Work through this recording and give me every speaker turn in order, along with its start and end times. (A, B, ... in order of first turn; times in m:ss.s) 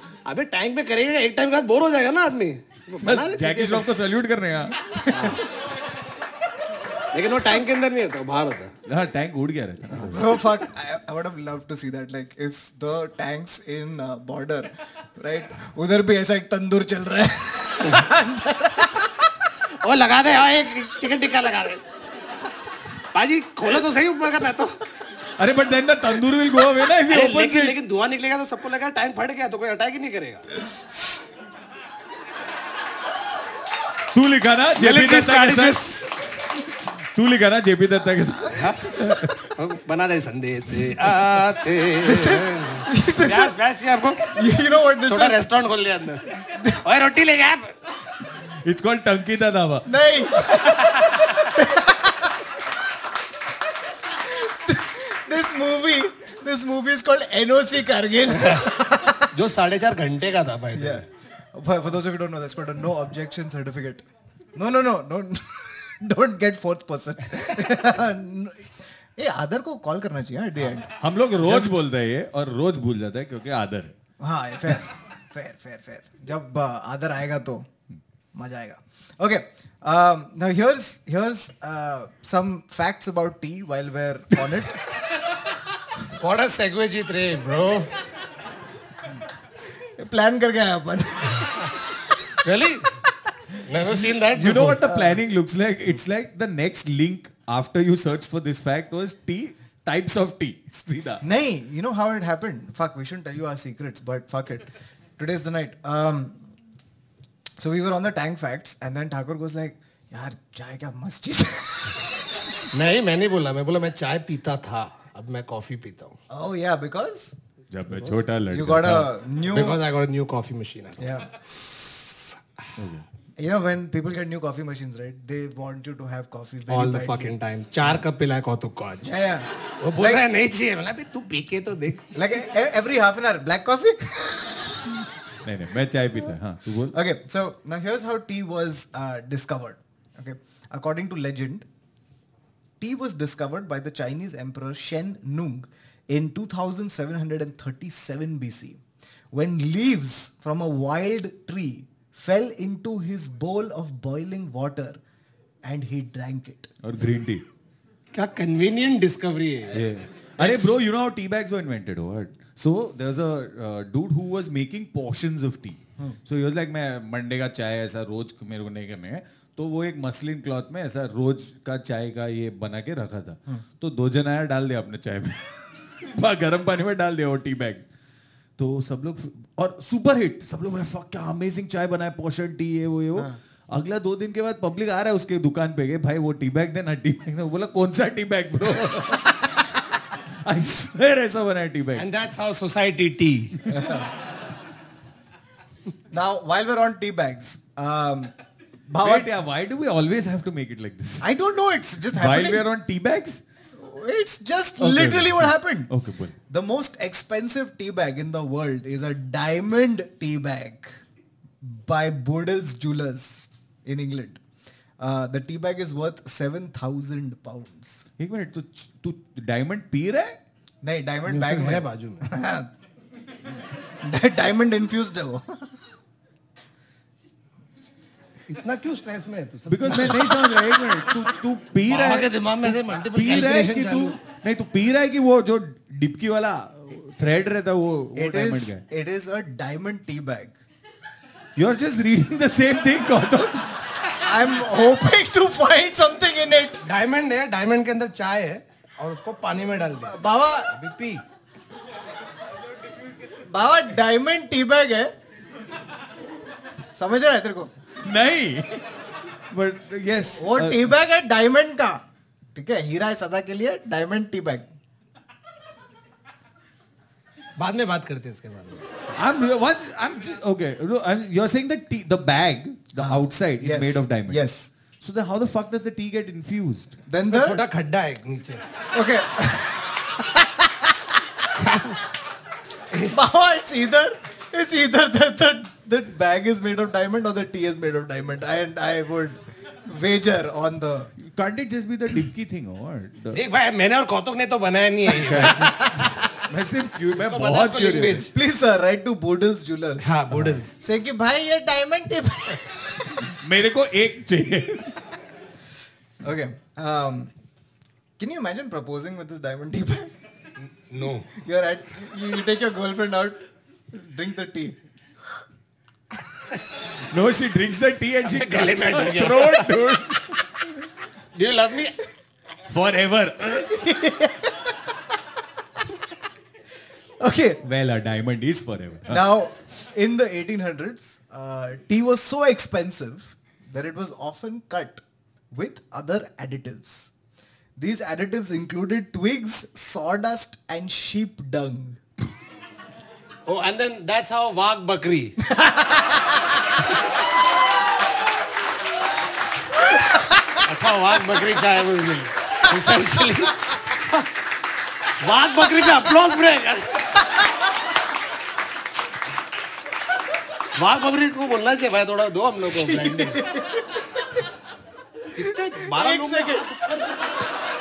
0:00.2-0:03.9 A
0:03.0-0:04.8 B
0:04.9-0:05.4 C
0:05.1-0:05.4 A
0:07.1-0:08.7 A
0:08.8-0:10.3 B
0:09.9-0:19.4 C
0:19.8-0:21.8 A
0:23.1-0:24.8 A
0:25.4-0:27.8 B
0:27.1-0:30.5 A
0:34.1-0:35.8 B
0:34.8-0:36.1 A
0:37.1-0:39.5 B
0:38.5-0:44.3 A
0:42.0-0:43.6 C
0:44.3-0:45.5 C
0:45.0-0:47.7 A
0:46.5-0:46.8 C
0:48.6-0:50.9 B
0:49.8-0:52.4 C
0:54.1-0:59.4 C
0:58.3-0:58.7 A
0:59.3-1:01.0 A
1:00.7-1:04.0 C
1:04.5-1:11.8 C
1:10.8-1:13.9 B
1:14.2-1:17.7 C
1:18.3-1:24.8 C
1:26.2-1:27.9 A
1:30.0-1:32.2 C
1:32.4-1:32.9 A
1:33.6-1:34.8 A
1:34.1-1:41.2 B
1:34.8-1:35.2 C
1:41.2-1:46.5 C
1:47.6-1:52.5 C
1:52.7-1:56.2 A
1:56.3-1:57.3 C
1:57.7-1:59.1 B
1:58.5-1:59.8 C
1:59.4-2:01.1 A
2:01.0-2:02.2 C
2:02.8-2:03.0 B
2:03.4-2:07.3 C
2:06.7-2:09.1 A
2:09.0-2:10.2 C
2:09.8-2:12.1 A
2:12.1-2:15.0 C
2:15.4-2:17.0 B
2:16.9-2:21.6 C
2:22.8-2:28.8 C
2:29.3-2:35.0 C
2:35.6-2:36.7 C
2:36.8-2:37.4 B
2:38.1-2:39.9 A
2:39.7-2:57.8 B
2:40.4-2:40.7 A
2:58.6-3:12.1 B
3:12.0-3:13.6 A
3:13.7-3:14.1 C
3:16.1-3:18.3 C
3:18.9-3:19.3 C
3:19.0-3:21.3 B
3:21.2-3:22.6 C
3:22.1-3:23.4 B
3:23.8-3:25.9 C
3:24.8-3:26.3 B
3:26.5-3:31.0 C
3:31.6-3:34.4 C
3:35.0-3:38.0 C
3:38.2-3:40.4 B
3:40.8-3:42.7 C
3:41.2-3:42.3 A
3:44.0-3:45.8 C
3:48.5-3:50.5 A
3:49.7-3:58.8 B
3:51.8-3:54.2 A
3:58.1-4:00.5 C
4:01.6-4:03.8 B
4:04.2-4:06.8 C
4:06.8-4:10.2 A
4:10.0-4:10.7 C
4:10.7-4:11.2 A
4:13.4-4:15.1 C
4:17.0-4:17.7 C
4:18.0-4:18.9 B
4:19.5-4:20.8 B
4:20.4-4:22.0 C
4:22.5-4:24.7 C
4:27.6-4:28.8 A
4:29.2-4:34.4 B
4:33.0-4:34.7 C
4:35.0-4:37.0 B
4:37.1-4:37.6 C
4:37.3-4:38.6 A
4:38.9-4:41.2 C
4:41.6-4:42.0 A
4:43.0-4:51.1 C
4:51.2-4:53.4 B
4:53.3-4:55.7 A
4:55.1-4:58.2 B
4:55.5-4:56.1 C
4:57.2-4:58.3 A
4:58.2-5:03.3 C
5:00.0-5:00.7 A
5:03.3-5:05.0 B
5:06.2-5:07.3 C
5:08.2-5:10.1 C
5:10.6-5:11.3 A
5:11.3-5:14.8 C
5:16.9-5:20.6 B
5:18.2-5:19.7 A
5:21.3-5:22.0 A
5:22.7-5:23.7 B
5:23.5-5:24.9 C
5:27.2-5:27.6 C
5:27.6-5:29.3 B
5:29.1-5:37.1 C
5:37.8-5:42.0 C
5:43.4-5:45.4 A
5:45.4-5:46.4 C
5:49.8-5:50.5 C
5:50.6-5:54.3 A
5:55.2-5:57.2 A
6:00.7-6:03.4 A
6:02.7-6:04.4 C
6:05.3-6:07.1 A
6:05.4-6:06.7 C